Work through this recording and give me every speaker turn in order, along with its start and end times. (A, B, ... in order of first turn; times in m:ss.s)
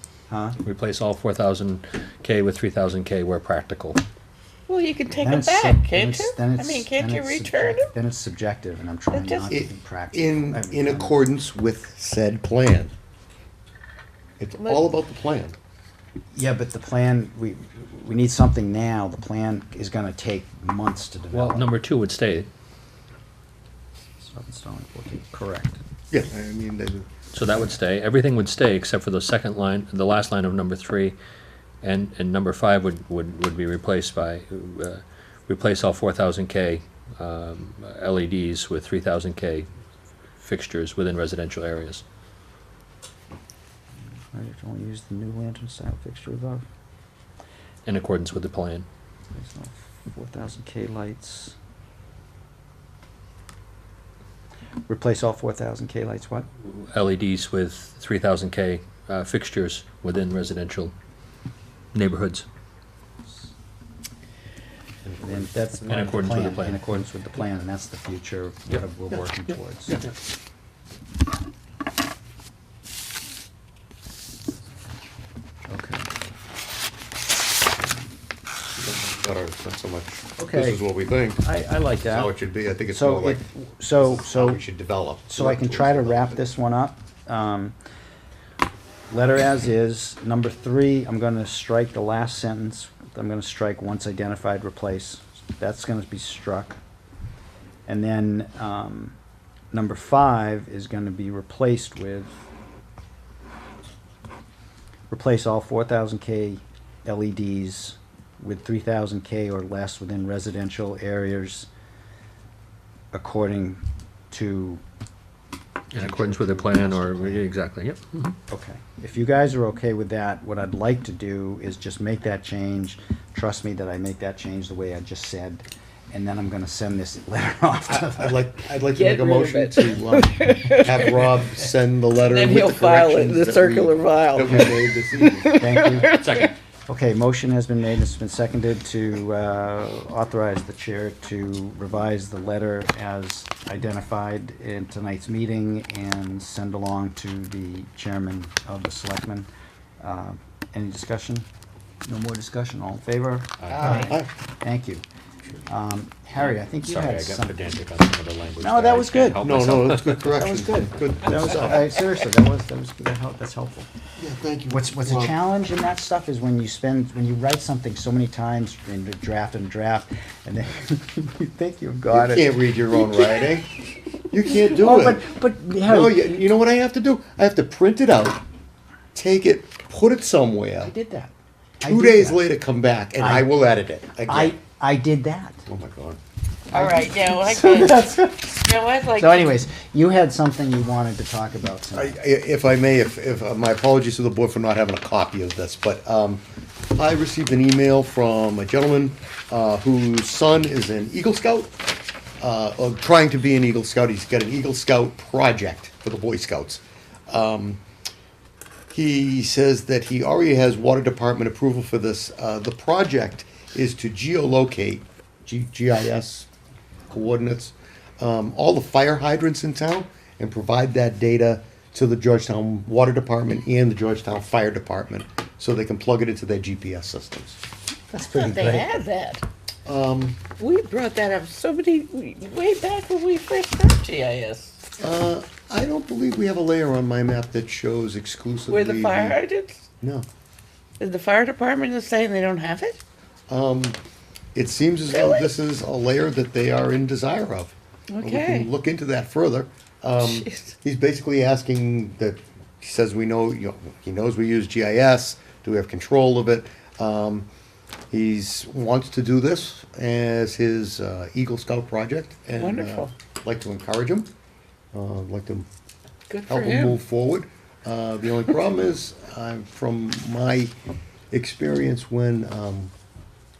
0:00.3-0:00.6 A
0:00.6-0:04.0 B
0:04.7-0:07.9 C
0:05.1-0:11.2 A
0:09.1-0:09.5 C
0:09.5-0:12.9 D
0:14.4-0:15.6 D
0:16.3-0:21.7 A
0:21.3-0:22.5 B
0:24.3-0:25.8 A
0:26.1-0:27.1 D
0:27.3-0:31.2 B
0:31.8-0:39.7 B
0:40.4-0:42.0 B
0:44.3-0:46.6 A
0:47.8-0:48.8 B
0:49.3-0:51.5 A
0:54.9-0:56.5 A
0:56.6-1:00.9 B
1:01.9-1:02.4 B
1:05.0-1:05.5 D
1:05.2-1:10.0 A
1:05.9-1:06.8 B
1:15.7-1:16.1 A
1:18.8-1:21.5 D
1:20.4-1:20.8 A
1:21.4-1:22.3 A
1:22.1-1:23.4 D
1:22.9-1:24.6 A
1:24.0-1:26.4 D
1:25.3-1:27.7 A
1:29.1-1:36.8 A
1:37.9-1:39.2 A
1:39.7-1:42.4 A
1:45.1-1:51.7 A
1:53.1-1:54.8 A
1:55.9-1:58.4 B
1:55.9-1:57.4 A
1:58.5-2:08.4 A
2:07.9-2:15.5 D
2:08.9-2:11.3 C
2:12.2-2:16.5 C
2:15.5-2:16.2 A
2:16.1-2:16.5 B
2:16.9-2:29.5 A
2:30.0-2:31.4 A
2:32.0-2:35.0 A
2:33.6-2:34.1 B
2:33.7-2:34.3 D
2:35.6-2:37.6 A
2:36.8-2:40.3 B
2:38.6-2:39.4 A
2:39.4-2:42.0 D
2:40.4-2:43.9 A
2:44.2-2:45.4 D
2:44.7-2:52.7 A
2:52.1-2:53.7 D
2:54.3-2:55.2 D
2:54.5-2:56.4 A
2:55.8-2:58.4 D
2:59.1-3:00.9 D
3:01.0-3:01.3 A
3:01.8-3:02.4 A
3:01.8-3:04.6 D
3:03.2-3:03.5 A
3:04.2-3:05.6 A
3:05.7-3:06.2 D
3:06.7-3:09.6 C
3:06.7-3:12.2 A
3:11.9-3:16.4 D
3:16.9-3:21.8 D
3:22.4-3:27.8 D
3:28.9-3:36.5 D
3:37.1-3:47.6 D
3:48.1-3:48.9 A
3:48.2-3:49.4 C
3:49.8-3:50.4 D
3:50.6-3:54.8 C
3:55.0-3:59.4 D
3:58.7-3:59.8 C
4:00.0-4:00.3 D
4:01.0-4:03.0 C
4:03.5-4:04.0 D
4:04.5-4:17.5 D
4:05.1-4:05.5 C
4:08.1-4:08.7 C
4:10.2-4:10.7 C
4:18.1-4:24.3 D
4:22.6-4:23.1 C
4:24.9-4:25.7 D
4:26.3-4:27.0 C
4:26.5-4:30.7 D
4:31.3-4:32.9 D